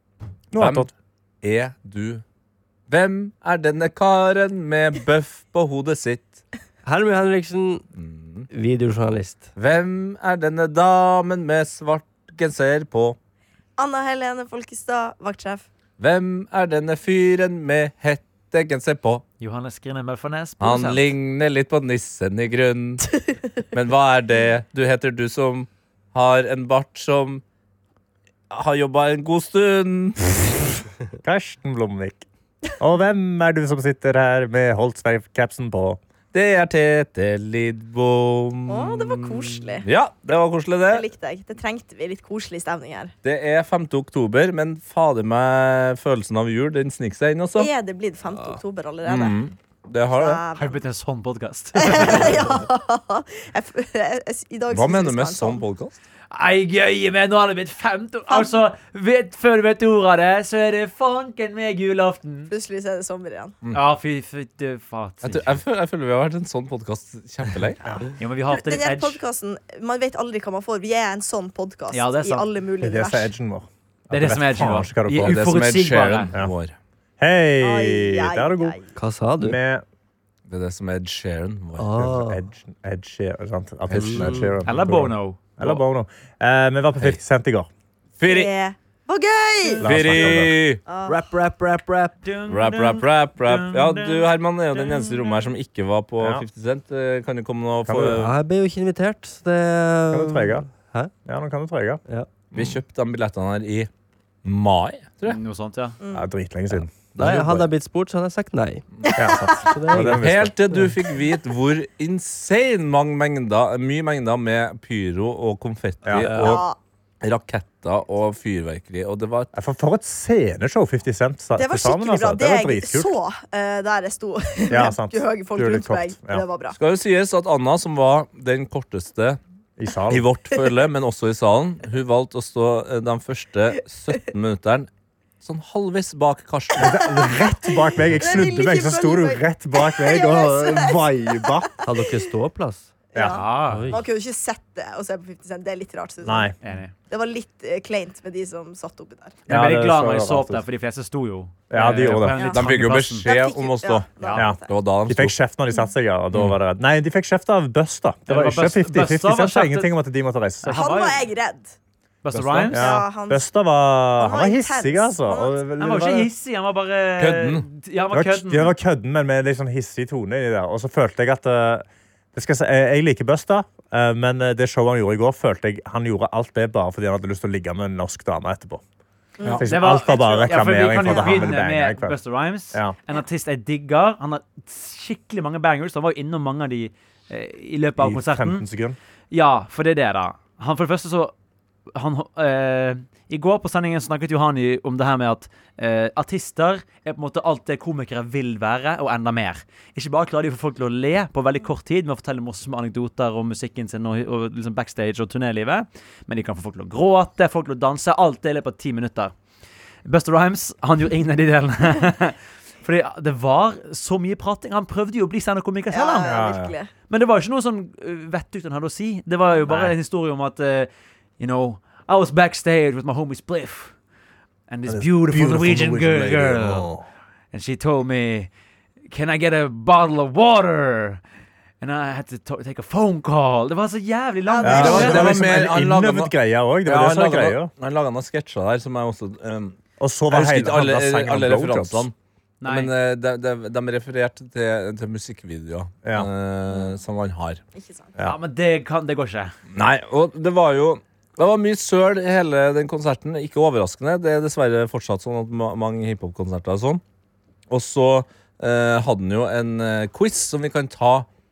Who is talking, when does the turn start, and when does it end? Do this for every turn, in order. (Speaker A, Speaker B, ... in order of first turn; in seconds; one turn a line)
Speaker A: 0.5-0.9
Speaker B: 0.6-0.9
Speaker B: 1.4-2.2
Speaker B: 2.9-6.4
Speaker C: 6.8-7.8
Speaker B: 8.0-8.5
Speaker C: 8.5-9.5
Speaker B: 9.6-13.2
Speaker D: 13.8-15.7
Speaker B: 16.0-19.2
Speaker E: 19.4-21.1
Speaker B: 20.6-23.1
Speaker B: 23.7-27.4
Speaker B: 28.5-30.8
Speaker A: 31.2-32.2
Speaker A: 32.8-36.0
Speaker B: 36.3-41.1
Speaker D: 38.7-39.8
Speaker D: 40.9-43.1
Speaker B: 43.2-47.7
Speaker D: 47.6-49.4
Speaker B: 49.0-50.4
Speaker D: 50.1-50.8
Speaker E: 50.5-52.3
Speaker D: 51.8-55.6
Speaker B: 54.7-56.0
Speaker E: 56.3-62.5
Speaker D: 58.3-58.6
Speaker D: 62.5-63.5
Speaker E: 63.7-65.6
Speaker B: 65.2-67.8
Speaker E: 68.2-69.2
Speaker D: 68.5-73.3
Speaker E: 71.9-72.5
Speaker A: 72.8-75.4
Speaker E: 74.1-76.3
Speaker B: 75.2-76.7
Speaker A: 77.2-78.8
Speaker D: 77.6-78.9
Speaker C: 79.0-79.6
Speaker A: 79.4-79.8
Speaker B: 80.5-81.9
Speaker C: 81.8-82.4
Speaker A: 81.9-87.7
Speaker B: 83.9-84.3
Speaker C: 83.9-84.6
Speaker E: 84.7-85.8
Speaker B: 88.2-88.5
Speaker D: 88.3-90.2
Speaker A: 89.8-90.6
Speaker B: 89.8-90.8
Speaker D: 90.9-91.2
Speaker C: 91.0-92.1
Speaker E: 92.2-94.3
Speaker B: 92.5-98.3
Speaker D: 94.8-95.4
Speaker A: 96.2-96.5
Speaker A: 97.8-98.2
Speaker C: 98.0-101.1
Speaker A: 100.1-100.7
Speaker A: 101.2-102.8
Speaker B: 102.5-103.9
Speaker B: 104.4-105.4
Speaker E: 105.2-106.0
Speaker D: 106.0-106.3
Speaker A: 106.1-107.7
Speaker C: 107.2-108.8
Speaker A: 109.2-110.5
Speaker D: 109.2-109.7
Speaker C: 109.5-110.8
Speaker B: 109.9-116.6
Speaker A: 116.0-116.3
Speaker C: 116.2-116.6
Speaker D: 116.3-116.8
Speaker B: 117.2-119.5
Speaker A: 119.5-123.2
Speaker D: 121.5-126.8
Speaker A: 124.7-126.4
Speaker B: 126.7-129.4
Speaker A: 129.8-130.2
Speaker B: 130.1-134.9
Speaker B: 135.4-137.0
Speaker A: 136.8-141.8
Speaker D: 138.2-142.1
Speaker C: 141.8-142.9
Speaker D: 143.1-146.5
Speaker A: 143.1-143.4
Speaker E: 143.3-143.9
Speaker C: 143.6-144.1
Speaker A: 146.2-146.5
Speaker E: 146.6-146.9
Speaker D: 147.1-149.4
Speaker A: 149.5-150.6
Speaker E: 149.5-153.3
Speaker A: 151.7-152.4
Speaker D: 152.4-152.6
Speaker B: 152.4-154.1
Speaker D: 153.2-154.7
Speaker E: 154.2-154.5
Speaker A: 154.3-160.9
Speaker B: 154.6-155.3
Speaker E: 158.3-159.9
Speaker E: 160.6-161.2
Speaker D: 160.7-161.7
Speaker E: 162.2-162.8
Speaker B: 162.3-162.7
Speaker D: 162.7-163.5
Speaker A: 162.7-166.3
Speaker D: 164.2-165.6
Speaker E: 165.8-168.7
Speaker B: 167.2-167.6
Speaker A: 168.1-178.8
Speaker D: 179.4-179.7
Speaker A: 179.6-182.2
Speaker E: 179.6-188.7
Speaker D: 181.0-181.6
Speaker A: 188.0-189.0
Speaker E: 189.3-191.3
Speaker E: 191.9-209.3
Speaker E: 210.0-216.3
Speaker D: 215.9-216.9
Speaker A: 216.2-216.7
Speaker E: 217.1-223.9
Speaker A: 219.7-219.9
Speaker E: 224.7-226.9
Speaker A: 224.9-227.1
Speaker E: 227.5-228.5
Speaker E: 229.1-231.2
Speaker E: 231.8-235.4
Speaker D: 234.5-235.2
Speaker A: 234.6-237.7
Speaker B: 234.7-236.3
Speaker B: 236.8-239.8
Speaker A: 240.0-242.1
Speaker B: 240.3-247.6
Speaker E: 242.6-242.9
Speaker D: 247.7-248.1
Speaker E: 248.2-249.5
Speaker B: 249.7-257.0
Speaker B: 257.7-261.3